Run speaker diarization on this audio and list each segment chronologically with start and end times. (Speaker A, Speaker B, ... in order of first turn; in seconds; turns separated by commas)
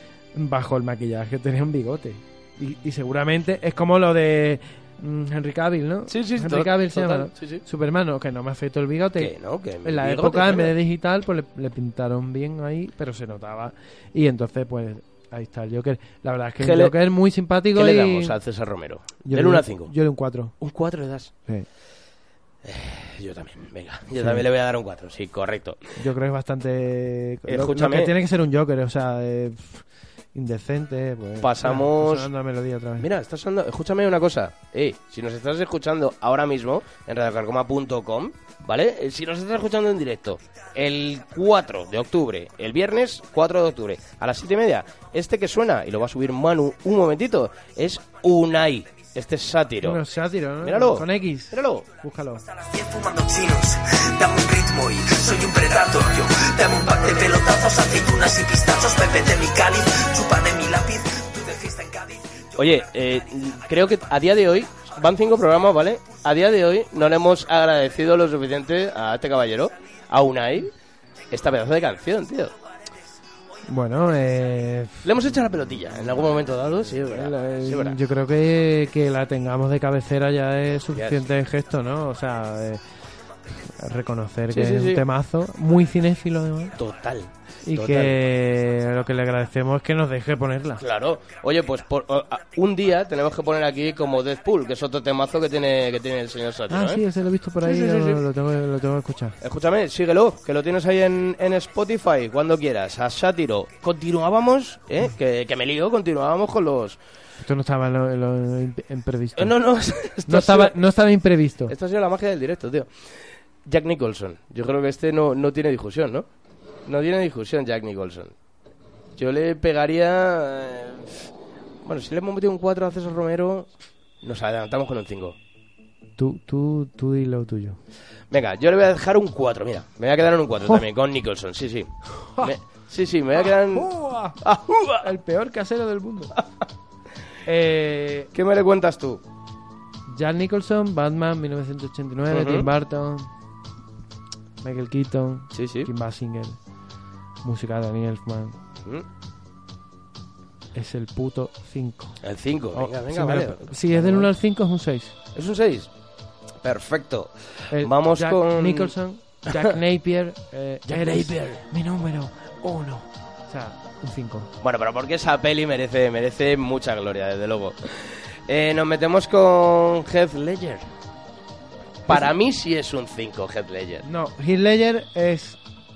Speaker A: 0.3-9.3, Speaker B: 6.1-7.6, Speaker B: 9.2-10.7, Speaker A: 9.8-18.4, Speaker B: 16.6-16.9, Speaker B: 17.8-19.9, Speaker A: 19.2-20.5, Speaker B: 20.6-21.3, Speaker B: 22.6-25.8, Speaker A: 24.2-24.4, Speaker A: 26.0-33.1, Speaker B: 27.5-28.2, Speaker B: 31.4-32.3, Speaker B: 33.0-50.0, Speaker A: 49.8-52.5, Speaker B: 50.6-51.9, Speaker C: 52.5-62.6, Speaker B: 62.6-70.7, Speaker B: 71.3-72.5, Speaker A: 73.7-75.1, Speaker B: 75.0-78.0, Speaker A: 77.1-82.8, Speaker B: 80.9-81.3, Speaker A: 83.7-86.8, Speaker B: 84.5-85.0, Speaker B: 86.8-88.2, Speaker A: 87.7-90.8, Speaker B: 90.8-97.0, Speaker A: 96.7-99.4, Speaker B: 97.6-98.2, Speaker B: 99.4-107.0, Speaker A: 107.4-109.5, Speaker B: 109.4-110.8, Speaker A: 110.3-111.8, Speaker B: 111.7-112.9, Speaker B: 113.7-116.3, Speaker B: 116.9-118.3, Speaker B: 119.2-121.3, Speaker B: 121.8-123.7, Speaker B: 124.2-125.4, Speaker A: 126.2-127.8, Speaker B: 128.3-135.1, Speaker A: 133.7-134.4, Speaker A: 135.0-136.3, Speaker A: 137.5-138.3, Speaker B: 138.3-139.2, Speaker A: 140.1-143.3, Speaker B: 142.3-142.7, Speaker A: 144.6-146.6, Speaker B: 145.5-145.9, Speaker A: 147.4-148.6, Speaker A: 150.8-152.2, Speaker B: 152.2-154.3, Speaker A: 152.7-155.1, Speaker B: 155.3-155.9, Speaker B: 156.6-158.9, Speaker A: 157.7-164.5, Speaker B: 160.9-161.6, Speaker B: 164.6-170.8, Speaker B: 172.1-174.0, Speaker A: 174.0-175.6